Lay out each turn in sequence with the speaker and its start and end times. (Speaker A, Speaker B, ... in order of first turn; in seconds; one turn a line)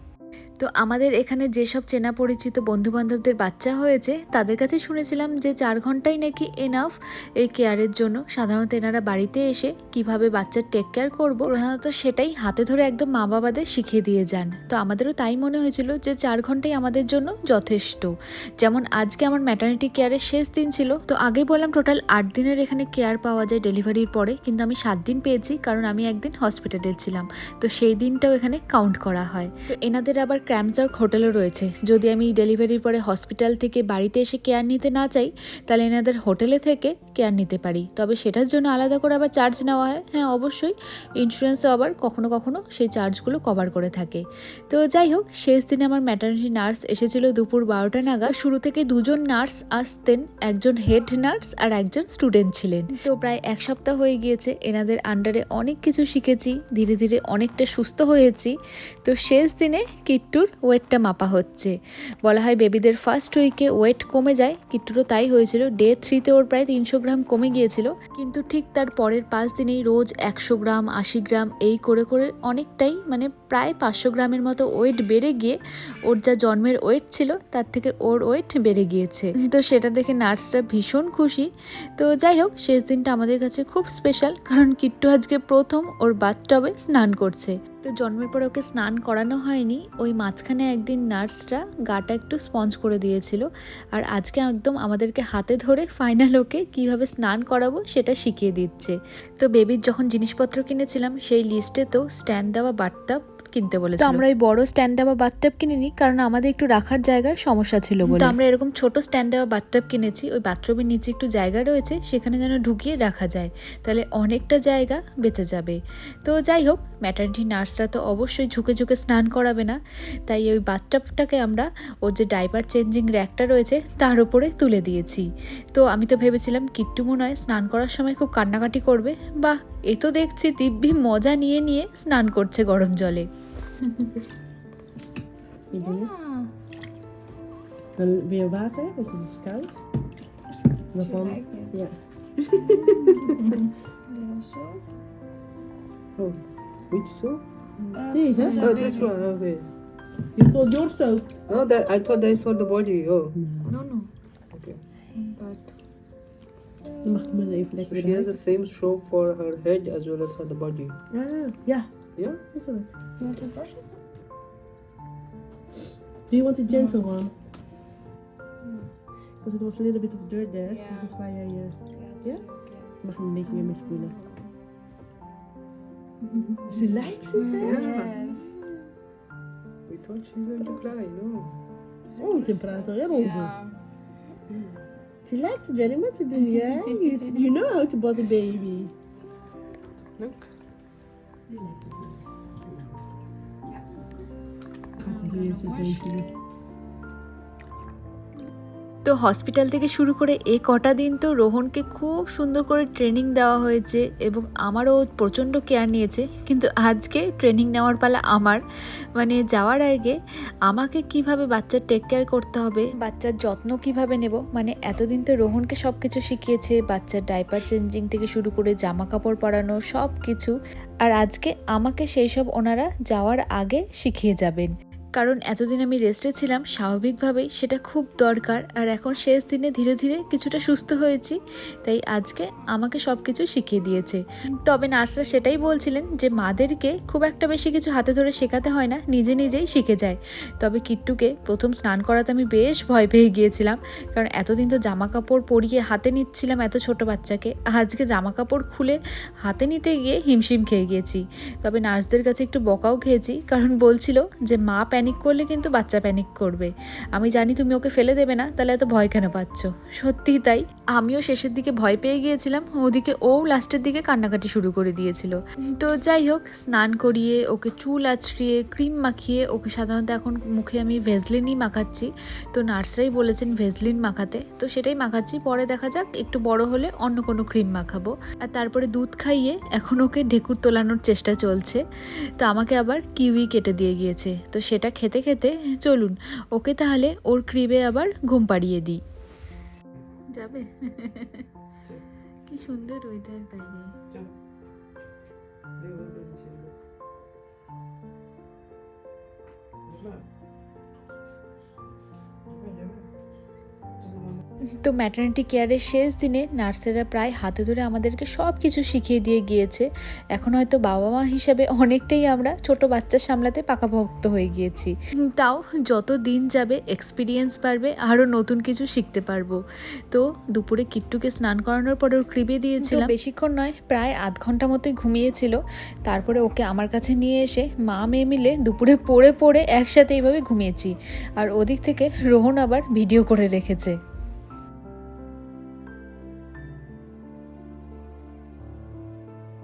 Speaker A: 0.6-133.3
Speaker B: 107.5-108.3
Speaker C: 135.7-136.1
Speaker B: 135.7-136.5
Speaker C: 138.0-139.8
Speaker C: 140.9-143.4
Speaker B: 140.9-141.8
Speaker B: 142.6-143.6
Speaker B: 144.1-144.8
Speaker D: 146.2-147.4
Speaker B: 147.9-149.2
Speaker C: 147.9-148.9
Speaker D: 148.5-149.7
Speaker C: 150.3-151.3
Speaker D: 151.5-153.3
Speaker C: 153.4-153.8
Speaker B: 153.7-154.1
Speaker D: 154.5-154.8
Speaker B: 155.2-155.6
Speaker C: 157.0-158.4
Speaker D: 157.8-161.0
Speaker C: 161.1-161.9
Speaker D: 162.2-162.4
Speaker C: 162.5-162.9
Speaker B: 163.2-163.8
Speaker C: 166.3-167.3
Speaker B: 168.6-168.9
Speaker C: 169.4-172.4
Speaker B: 170.7-171.2
Speaker B: 171.9-172.9
Speaker C: 173.0-174.2
Speaker B: 173.5-174.5
Speaker B: 176.3-176.8
Speaker C: 176.7-178.2
Speaker B: 177.3-178.5
Speaker D: 177.5-178.3
Speaker D: 179.9-181.5
Speaker B: 182.1-183.8
Speaker C: 182.2-183.5
Speaker C: 185.2-188.9
Speaker C: 191.5-192.2
Speaker D: 192.7-192.9
Speaker C: 195.0-196.3
Speaker B: 195.0-196.4
Speaker A: 199.0-208.6
Speaker A: 209.2-281.8
Speaker A: 282.4-289.0
Speaker A: 290.3-291.4
Speaker A: 292.5-293.9
Speaker D: 295.8-296.6
Speaker C: 295.9-296.5
Speaker C: 299.9-300.1
Speaker C: 302.5-302.9
Speaker A: 304.8-319.6
Speaker A: 320.1-334.0
Speaker B: 322.8-323.1